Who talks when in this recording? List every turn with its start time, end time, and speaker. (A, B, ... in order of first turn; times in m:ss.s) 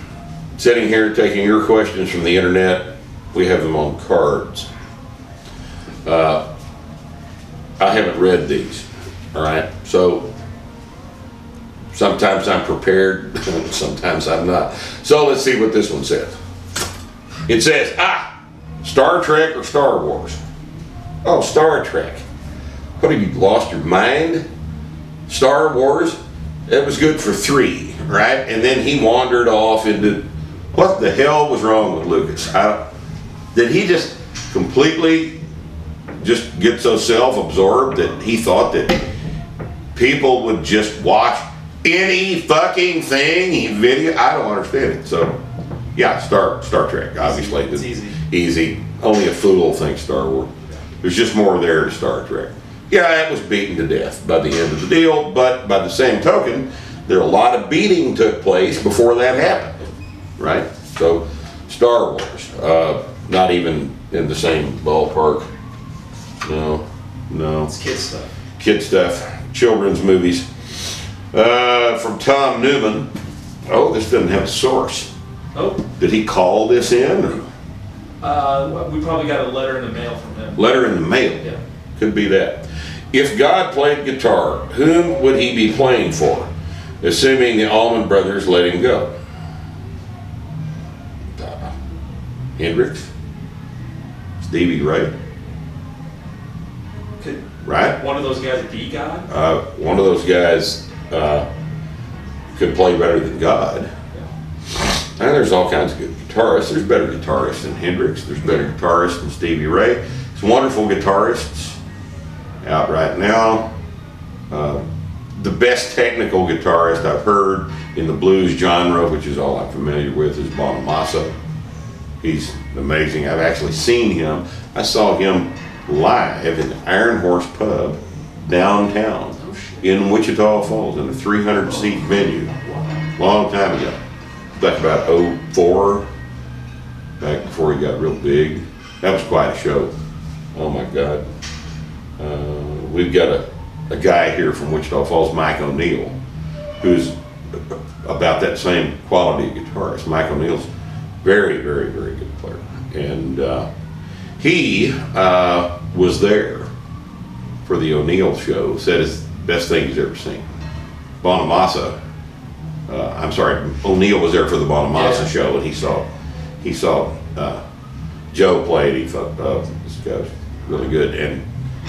0:00.6-0:04.7 A
0:06.0-0:06.4 A
0:07.8-0:10.3 A
0:11.9-0:16.4 A
0:17.5-0:20.4 A
0:21.2-0:22.2 A
0:23.0-0:24.4 A
0:25.3-0:32.8 A
0:33.5-0:35.4 A
0:36.2-0:39.0 A
0:39.9-0:45.4 A
0:45.9-0:50.5 A
0:47.2-0:48.2 B
0:51.0-0:59.8 A
1:00.4-1:05.5 A
1:06.4-1:07.7 A
1:07.7-1:08.3 B
1:08.6-1:13.1 A
1:13.7-1:15.1 A
1:15.5-1:15.8 B
1:16.0-1:17.4 A
1:18.2-1:20.6 B
1:20.6-1:21.4 A
1:22.0-1:29.1 A
1:31.4-1:31.7 A
1:32.6-1:33.1 A
1:34.4-1:35.1 A
1:37.6-1:38.0 A
1:37.9-1:39.3 B
1:39.3-1:41.4 A
1:42.5-1:43.9 A
1:44.8-1:51.8 A
1:52.6-1:53.7 A
1:54.5-1:54.8 A
1:55.3-2:01.3 A
2:02.2-2:12.5 A
2:09.4-2:09.8 B
2:13.2-2:14.0 A
2:14.6-2:16.0 A
2:17.2-2:19.9 A
2:20.5-2:21.3 A
2:22.2-2:26.2 A
2:26.8-2:30.7 A
2:31.2-2:33.7 A
2:34.4-2:36.7 A
2:37.6-2:40.4 A
2:41.2-2:42.0 A
2:42.9-2:46.0 A
2:44.9-2:45.3 B
2:46.6-2:47.6 A
2:48.3-2:51.4 A